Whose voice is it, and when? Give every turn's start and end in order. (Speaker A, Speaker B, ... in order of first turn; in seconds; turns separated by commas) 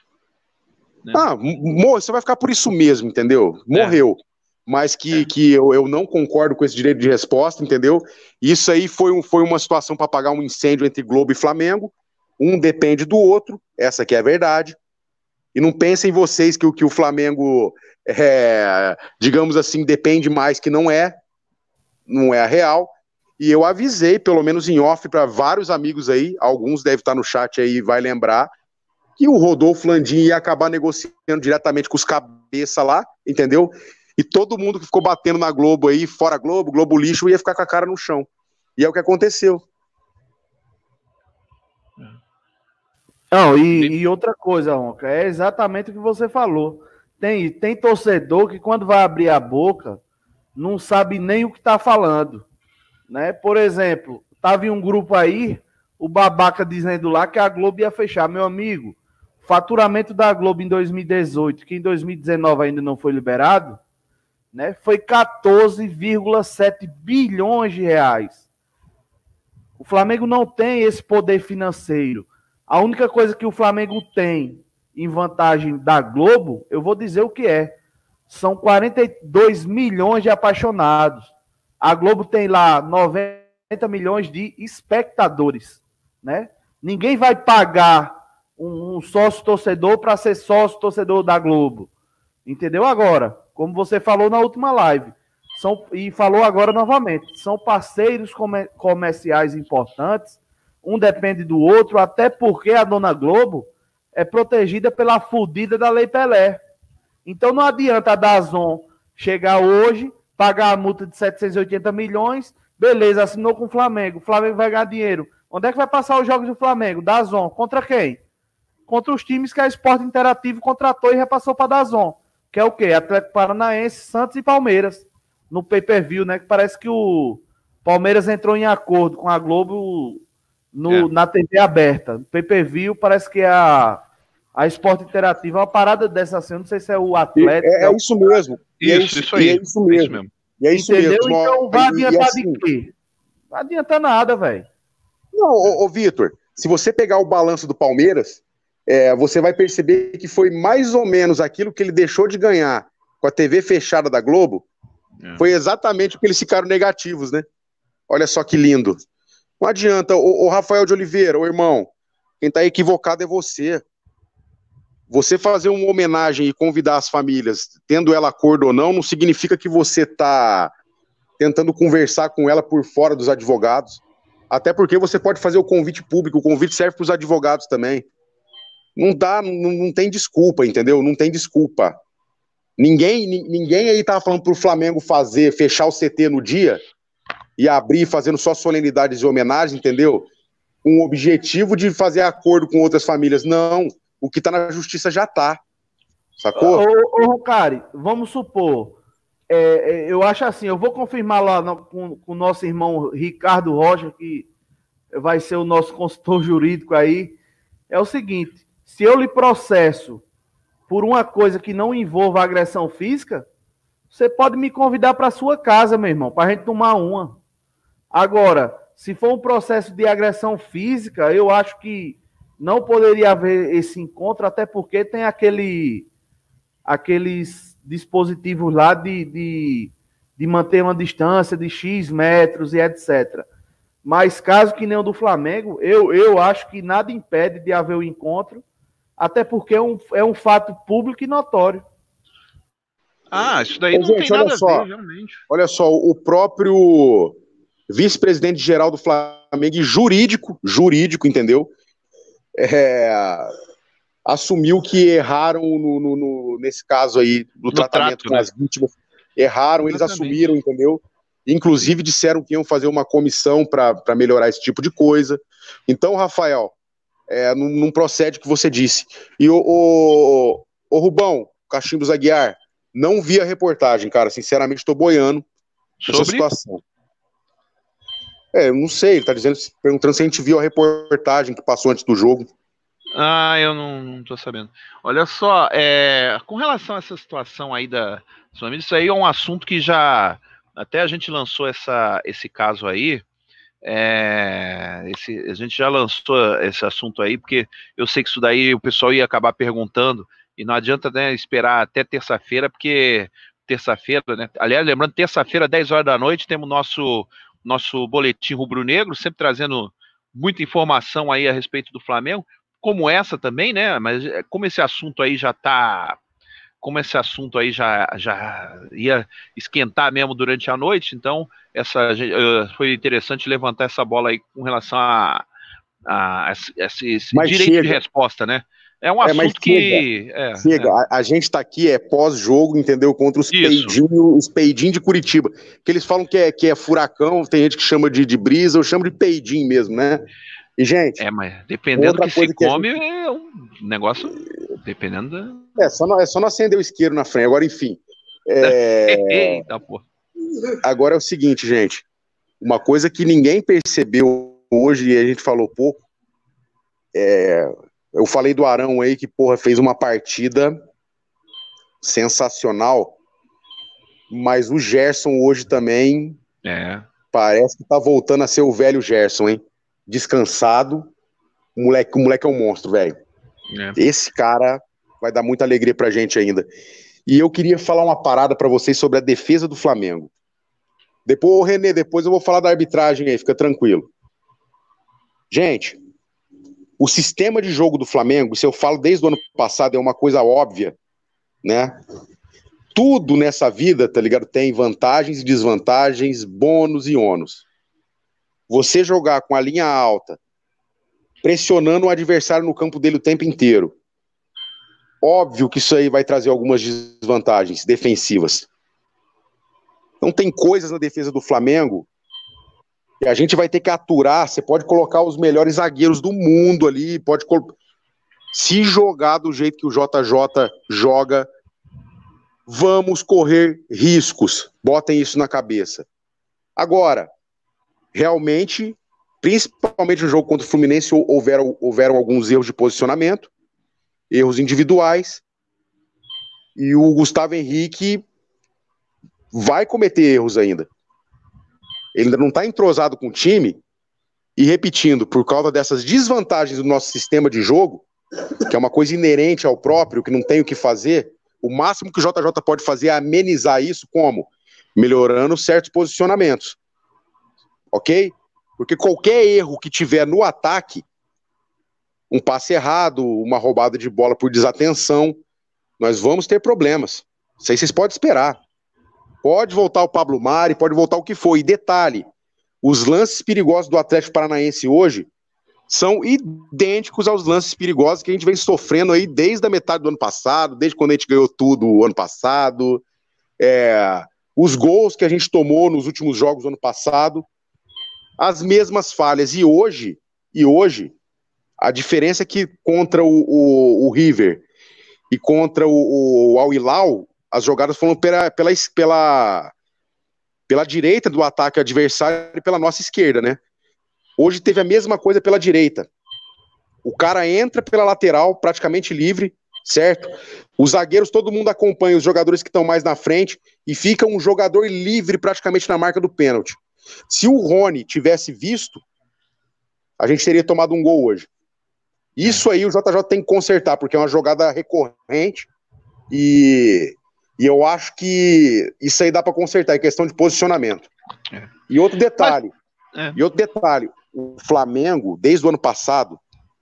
Speaker A: 1.1-14.8, Speaker B: 3.7-4.0, Speaker A: 15.6-21.1, Speaker A: 22.1-28.5, Speaker A: 29.2-39.6, Speaker C: 43.3-50.0, Speaker B: 43.7-43.9, Speaker C: 50.6-52.5, Speaker C: 53.1-63.8, Speaker C: 64.5-68.4, Speaker C: 69.8-77.8, Speaker C: 78.3-91.9, Speaker C: 92.5-106.6, Speaker C: 107.3-118.2, Speaker C: 118.9-130.2, Speaker C: 130.7-134.0, Speaker C: 134.6-138.0, Speaker A: 137.4-142.6, Speaker B: 138.8-140.3, Speaker C: 140.7-142.9, Speaker C: 143.5-144.7, Speaker A: 145.3-154.7, Speaker A: 155.4-157.4, Speaker A: 158.1-159.0, Speaker A: 159.6-161.9, Speaker A: 162.4-163.8, Speaker A: 165.1-170.7, Speaker A: 171.4-178.1, Speaker A: 179.0-182.0, Speaker A: 182.8-186.8, Speaker A: 187.6-190.3, Speaker A: 190.8-195.6, Speaker A: 196.4-196.8, Speaker C: 196.6-199.0, Speaker C: 199.5-204.5, Speaker C: 205.1-207.4, Speaker C: 207.9-210.2, Speaker C: 210.9-213.5, Speaker C: 214.1-217.4, Speaker C: 218.1-226.1, Speaker C: 226.9-233.5, Speaker C: 234.0-238.6, Speaker C: 239.2-241.8, Speaker B: 243.3-245.4, Speaker A: 243.9-244.9, Speaker A: 245.5-247.3, Speaker A: 247.9-251.7, Speaker A: 252.6-253.5, Speaker A: 254.3-266.7, Speaker B: 257.7-258.5, Speaker B: 259.9-260.4, Speaker A: 267.3-275.4, Speaker B: 276.0-276.5, Speaker A: 276.1-276.8, Speaker A: 278.5-282.5, Speaker B: 283.1-293.2, Speaker B: 293.8-316.2, Speaker B: 316.8-325.4, Speaker B: 326.1-330.9, Speaker A: 327.3-328.0, Speaker A: 329.2-330.1, Speaker A: 330.6-340.2, Speaker B: 333.5-334.0, Speaker A: 340.8-341.2, Speaker B: 341.2-345.7, Speaker A: 342.0-342.9, Speaker A: 345.8-349.6, Speaker B: 348.6-350.0, Speaker A: 350.8-352.0, Speaker A: 352.6-356.0, Speaker A: 357.1-360.8, Speaker A: 362.0-363.2, Speaker A: 364.3-366.4, Speaker B: 366.6-367.1, Speaker A: 367.3-371.1, Speaker A: 371.8-373.1, Speaker A: 374.0-376.7, Speaker A: 377.3-380.3, Speaker A: 381.3-384.1, Speaker A: 385.5-386.0, Speaker A: 387.0-391.0, Speaker A: 391.6-391.9, Speaker A: 392.9-397.6, Speaker A: 398.7-400.4, Speaker A: 401.4-403.9, Speaker A: 405.2-408.7, Speaker A: 410.2-412.1, Speaker A: 413.2-417.8, Speaker A: 418.5-421.5, Speaker A: 422.7-426.1, Speaker A: 426.8-427.3, Speaker A: 428.1-433.5, Speaker A: 434.3-435.4, Speaker A: 436.8-438.2, Speaker A: 439.5-440.9, Speaker A: 442.1-443.8, Speaker A: 444.6-448.1, Speaker A: 448.7-456.8, Speaker A: 457.9-461.1, Speaker A: 462.3-465.4, Speaker A: 466.0-468.6, Speaker A: 469.4-472.2, Speaker A: 472.8-475.3, Speaker A: 475.9-483.0, Speaker A: 483.6-487.5, Speaker A: 488.4-491.1, Speaker A: 491.8-494.6, Speaker A: 495.3-499.7, Speaker A: 500.7-503.6, Speaker A: 504.4-506.1, Speaker A: 507.0-519.0, Speaker A: 520.2-521.5, Speaker A: 522.4-525.7, Speaker A: 526.3-531.1, Speaker A: 531.9-532.7, Speaker A: 533.4-536.4